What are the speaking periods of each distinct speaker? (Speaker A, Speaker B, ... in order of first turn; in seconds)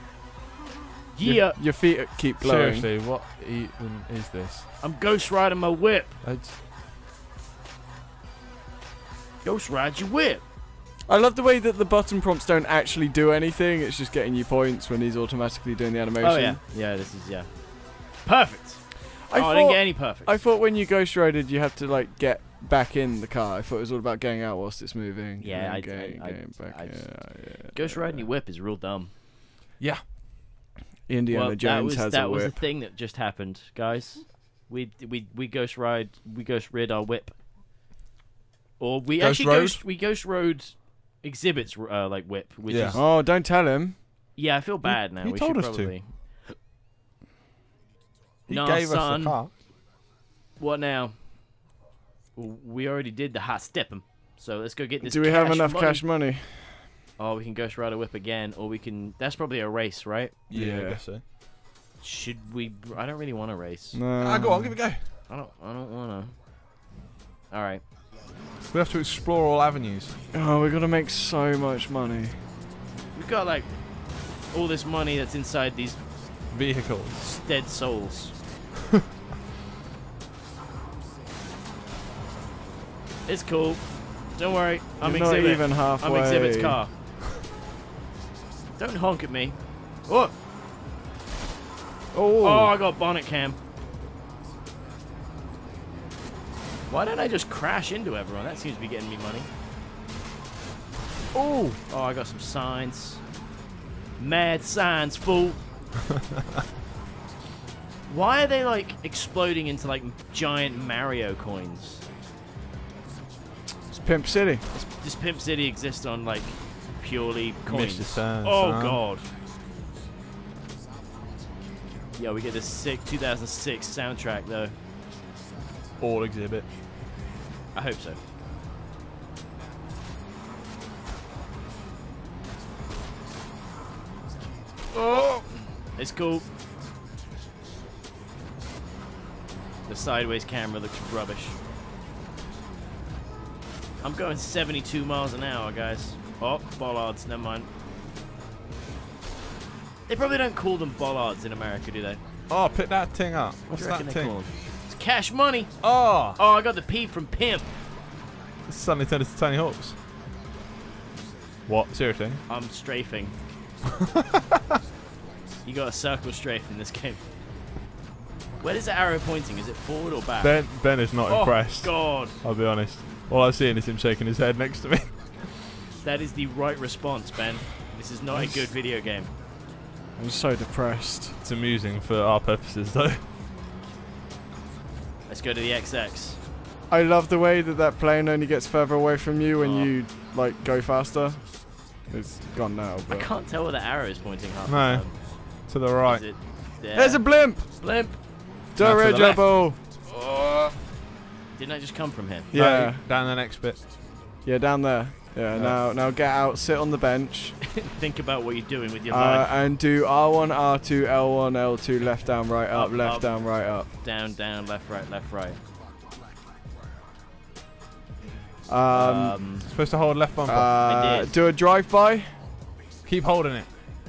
Speaker A: 1.1-1.6, 4.8-6.2, 9.4-10.4, 16.2-20.3, 25.4-29.1, 31.3-37.3, 38.8-43.1, 44.3-46.1, 48.5-49.4, 50.6-51.3, 52.3-56.0, 57.2-60.4, 62.0-64.0, 65.3-66.3, 67.5-67.8, 73.1-76.0, 77.2-78.3, 83.2-86.9, 88.8-90.3, 92.4-93.6, 96.9-99.5, 101.9-103.2, 104.2-105.6, 108.1-112.0, 115.0-119.2, 122.2-124.7, 127.7-128.2, 134.9-136.4, 139.9-141.5, 144.0-147.7, 150.1-152.2, 153.7-157.7, 162.5-163.3, 165.6-167.2, 168.6-170.7, 171.3-172.4, 176.0-179.3, 185.3-186.4, 189.6-189.9, 193.1-195.4, 196.0-198.3, 199.1-199.4, 200.1-200.7, 201.6-202.5, 207.7-209.5, 212.7-213.4, 214.0-215.6, 218.9-219.7, 220.8-221.3
Speaker B: 1.4-2.9, 11.1-16.6, 19.3-28.2, 31.1-32.6, 42.9-44.0, 55.0-56.8, 60.5-61.0, 63.9-64.8, 70.3-72.4, 85.0-86.8, 92.1-92.7, 101.3-101.8, 113.9-114.9, 180.2-181.3, 186.9-193.3, 196.9-197.7, 198.7-199.8, 202.5-203.0, 204.4-207.6, 209.1-213.9, 218.7-219.3, 220.4-222.4
Speaker C: 2.4-4.7, 6.2-6.6, 39.2-39.8, 42.7-43.0, 44.8-45.9, 48.5-49.5, 60.5-61.2, 64.2-65.0, 68.7-70.1, 76.5-77.2, 117.7-119.0, 126.0-126.7, 152.5-154.4, 155.8-156.4, 158.7-159.9, 161.7-162.4, 170.4-175.6, 181.4-183.2, 194.7-196.2, 198.8-199.6, 202.5-203.8, 219.7-220.8, 223.0-223.7